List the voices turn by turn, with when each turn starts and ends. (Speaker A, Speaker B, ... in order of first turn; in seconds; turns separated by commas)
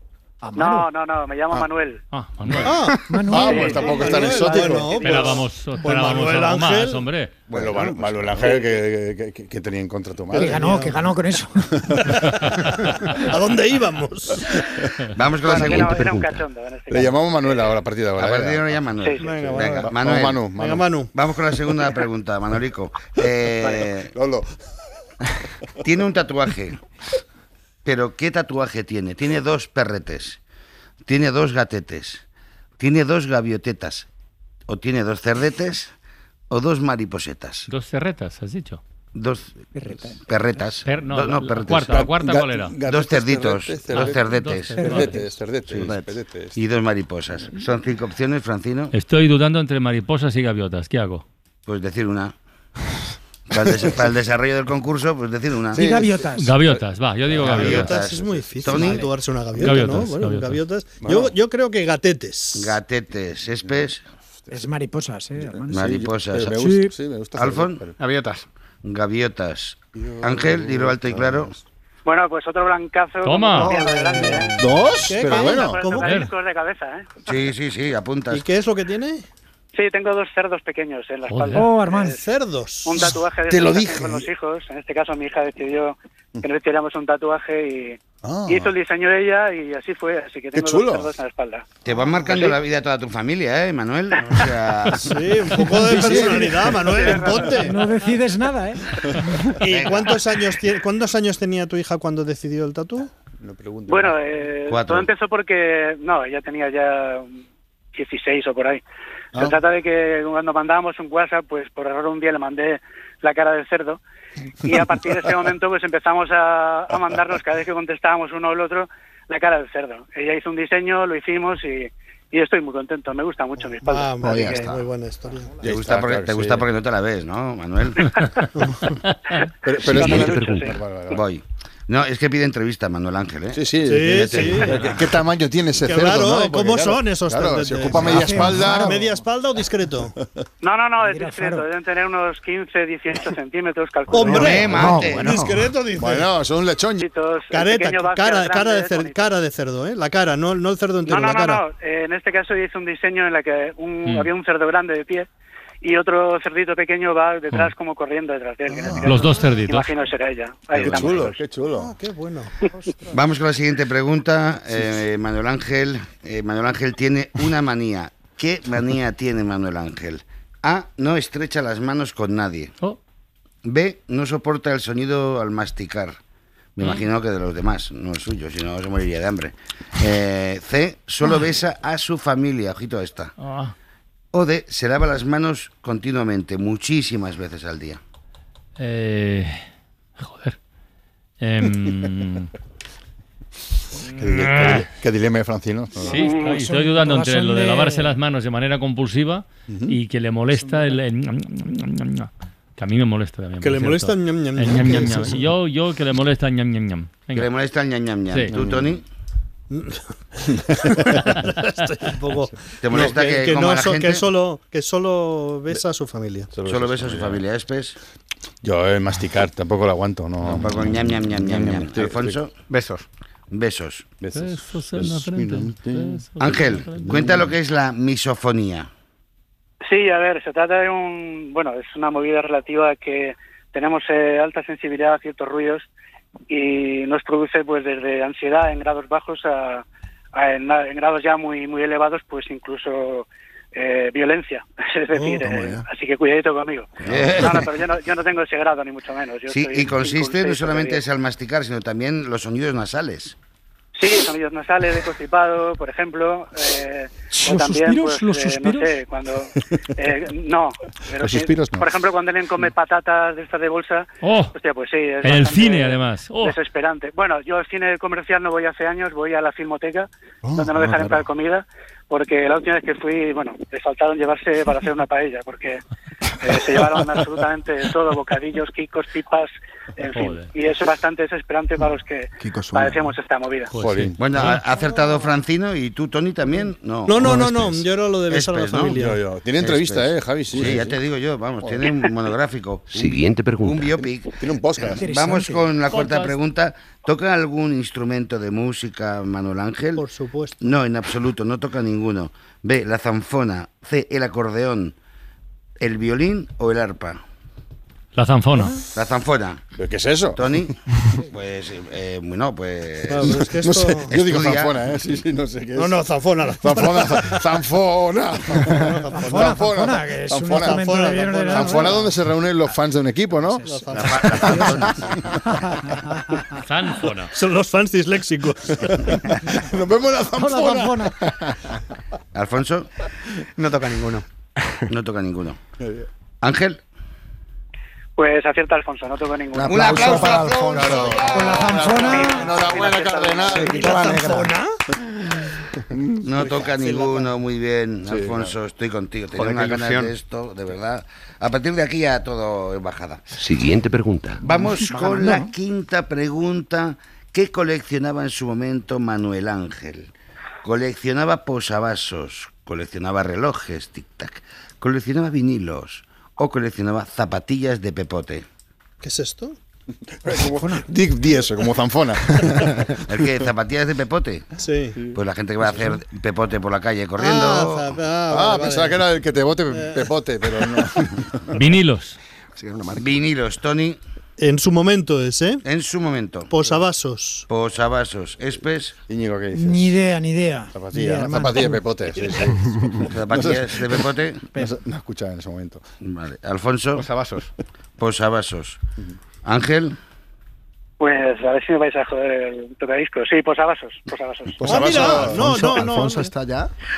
Speaker A: 0.4-0.9, Speaker B: 0.6-2.0, Speaker C: 2.1-2.8, Speaker D: 2.6-7.0, Speaker A: 3.1-4.0, Speaker E: 3.3-5.0, Speaker B: 3.4-5.3, Speaker C: 5.0-7.3, Speaker F: 7.5-8.7, Speaker E: 7.5-10.6, Speaker A: 10.3-12.0, Speaker D: 10.5-11.0, Speaker D: 12.0-14.7, Speaker F: 15.2-16.1, Speaker B: 15.4-17.6, Speaker G: 15.8-16.3, Speaker E: 16.9-18.8, Speaker F: 18.2-20.4, Speaker D: 19.2-20.0, Speaker E: 19.6-20.9, Speaker D: 20.5-21.1, Speaker F: 21.1-24.1, Speaker E: 23.6-24.5, Speaker F: 25.8-26.9, Speaker F: 27.9-30.4, Speaker F: 31.1-32.2, Speaker F: 32.8-34.1, Speaker F: 34.7-35.9, Speaker F: 36.5-37.7, Speaker C: 37.7-38.8, Speaker F: 39.1-39.6, Speaker A: 39.8-40.2, Speaker F: 40.2-42.1, Speaker C: 40.9-42.8, Speaker E: 41.9-46.6, Speaker F: 42.9-44.9, Speaker C: 44.3-45.1, Speaker A: 44.7-45.3, Speaker F: 45.7-46.0, Speaker F: 46.5-48.9, Speaker C: 48.9-51.2, Speaker F: 51.7-52.3, Speaker F: 53.5-56.0, Speaker A: 55.7-56.5, Speaker E: 55.8-56.1, Speaker C: 56.4-58.0, Speaker D: 57.4-62.8, Speaker F: 57.5-59.1, Speaker E: 57.5-59.0, Speaker C: 59.6-60.6, Speaker E: 61.0-61.3, Speaker F: 62.5-64.0, Speaker A: 64.5-65.8, Speaker E: 65.5-68.0, Speaker F: 65.7-66.6, Speaker A: 66.5-66.9, Speaker F: 67.4-67.8, Speaker H: 68.0-68.5, Speaker F: 68.8-71.5, Speaker E: 70.0-71.5, Speaker B: 72.0-74.5, Speaker C: 73.2-73.8, Speaker D: 73.6-75.8, Speaker E: 74.6-76.0, Speaker B: 75.2-77.1, Speaker F: 77.3-78.5, Speaker D: 78.3-79.2, Speaker B: 79.8-82.2, Speaker C: 81.3-81.7, Speaker A: 81.6-82.2, Speaker D: 82.0-83.2, Speaker B: 82.8-91.6, Speaker E: 83.5-84.0, Speaker D: 83.9-84.2, Speaker E: 88.2-88.7, Speaker E: 90.5-91.1, Speaker F: 91.8-95.2, Speaker D: 92.0-92.6, Speaker D: 95.0-97.8, Speaker E: 95.7-97.3, Speaker B: 96.8-97.7, Speaker A: 97.5-99.6, Speaker D: 99.6-103.1, Speaker F: 99.6-100.2, Speaker E: 103.4-104.2, Speaker B: 103.9-107.4, Speaker F: 104.7-105.1, Speaker B: 108.0-108.8, Speaker E: 109.3-109.6, Speaker B: 109.3-114.0, Speaker B: 114.6-124.7, Speaker D: 123.8-125.7, Speaker I: 124.2-124.8, Speaker F: 125.6-128.1, Speaker E: 125.7-126.6, Speaker D: 128.6-129.0, Speaker E: 129.6-131.2, Speaker B: 129.8-130.8, Speaker F: 131.1-134.9, Speaker E: 133.5-139.1, Speaker D: 133.8-134.9, Speaker D: 135.8-140.1, Speaker A: 138.0-139.2, Speaker B: 140.6-144.8, Speaker A: 141.0-141.7, Speaker D: 144.1-146.3, Speaker F: 144.3-145.4, Speaker I: 144.7-145.6, Speaker E: 146.0-147.1, Speaker B: 147.0-149.2, Speaker D: 147.5-151.6, Speaker B: 151.1-155.3, Speaker B: 155.8-161.2, Speaker E: 158.7-159.2, Speaker C: 159.0-159.9, Speaker F: 160.7-161.4, Speaker E: 160.7-161.9, Speaker D: 161.8-162.5, Speaker A: 162.7-163.2, Speaker F: 163.1-172.7, Speaker F: 173.7-176.2, Speaker F: 176.8-183.3, Speaker C: 183.4-183.7, Speaker F: 184.3-188.0, Speaker C: 188.8-189.7, Speaker C: 190.2-190.6, Speaker C: 191.4-192.5, Speaker E: 194.2-196.2, Speaker C: 194.3-194.8, Speaker C: 196.0-207.5, Speaker A: 196.1-198.2, Speaker E: 199.7-200.0, Speaker A: 200.6-200.9, Speaker D: 203.6-205.4, Speaker F: 207.3-209.0, Speaker E: 208.5-208.9, Speaker D: 209.7-216.5, Speaker F: 212.8-214.3, Speaker E: 216.5-217.4, Speaker F: 216.7-218.0, Speaker E: 218.6-222.4, Speaker F: 220.4-222.5, Speaker H: 222.7-223.1, Speaker F: 223.5-224.1, Speaker E: 224.2-227.5, Speaker C: 224.3-227.3, Speaker F: 226.4-228.9, Speaker B: 229.9-235.9, Speaker B: 236.5-239.8, Speaker B: 240.3-251.0, Speaker D: 245.2-245.7, Speaker I: 245.4-245.8, Speaker I: 247.0-247.6, Speaker F: 247.1-247.7, Speaker F: 249.5-253.3, Speaker B: 254.0-275.8, Speaker A: 257.3-259.0, Speaker E: 261.2-261.9, Speaker C: 264.2-264.5, Speaker C: 265.2-266.6, Speaker E: 270.4-271.2, Speaker B: 276.4-283.7, Speaker C: 280.1-280.5, Speaker I: 282.4-283.1, Speaker C: 283.7-284.6, Speaker E: 283.8-284.6, Speaker F: 284.2-289.0, Speaker D: 287.1-289.2, Speaker E: 288.9-291.0, Speaker F: 289.6-300.1, Speaker E: 291.6-292.1, Speaker G: 292.9-294.0, Speaker E: 294.4-295.1, Speaker A: 295.0-295.6, Speaker C: 295.9-296.4, Speaker D: 299.9-300.8, Speaker F: 300.6-304.9, Speaker F: 305.8-307.2, Speaker C: 308.1-308.8, Speaker F: 308.9-309.6, Speaker E: 309.8-310.7, Speaker F: 310.4-310.7, Speaker F: 311.3-313.3, Speaker D: 313.1-314.2, Speaker E: 313.6-316.0, Speaker F: 314.1-314.8, Speaker D: 315.8-317.5, Speaker E: 316.6-320.9, Speaker D: 318.6-319.6, Speaker A: 319.1-322.1, Speaker D: 320.6-322.0, Speaker E: 321.5-323.7, Speaker A: 323.5-323.8, Speaker D: 323.6-325.0, Speaker F: 323.9-325.0, Speaker A: 325.7-326.4, Speaker C: 326.6-327.3, Speaker D: 327.3-329.3, Speaker E: 329.1-331.6, Speaker A: 330.4-331.2, Speaker F: 332.4-332.9, Speaker H: 333.6-334.3, Speaker F: 334.9-335.6, Speaker E: 335.8-336.1, Speaker F: 336.4-336.8, Speaker B: 338.2-340.2, Speaker I: 339.5-341.2, Speaker F: 339.6-341.9, Speaker E: 339.9-343.9, Speaker A: 341.3-342.6, Speaker B: 342.0-343.8, Speaker I: 343.4-344.5, Speaker D: 343.7-344.8, Speaker E: 345.9-346.2, Speaker F: 346.2-353.2, Speaker D: 346.6-347.3, Speaker E: 348.1-348.5, Speaker H: 349.4-350.1, Speaker G: 353.4-354.4, Speaker F: 354.4-360.1, Speaker A: 354.9-355.5, Speaker F: 360.6-368.4, Speaker D: 369.0-369.6, Speaker E: 370.2-372.8, Speaker F: 373.1-374.5, Speaker D: 374.6-375.0, Speaker F: 375.1-378.0, Speaker D: 377.2-379.0, Speaker E: 378.3-381.4, Speaker D: 379.7-380.1, Speaker C: 381.5-382.2, Speaker I: 382.6-383.1, Speaker F: 383.0-384.0, Speaker D: 384.4-385.6, Speaker F: 385.6-386.7, Speaker D: 386.5-387.5, Speaker F: 387.5-389.0, Speaker E: 389.1-390.0, Speaker A: 389.6-391.8, Speaker E: 390.7-395.8, Speaker F: 393.1-394.4, Speaker F: 396.0-397.1, Speaker H: 397.0-397.5, Speaker F: 398.0-398.8, Speaker F: 399.4-400.0, Speaker B: 401.0-405.1, Speaker E: 404.5-405.9, Speaker D: 404.7-406.3, Speaker I: 405.0-406.7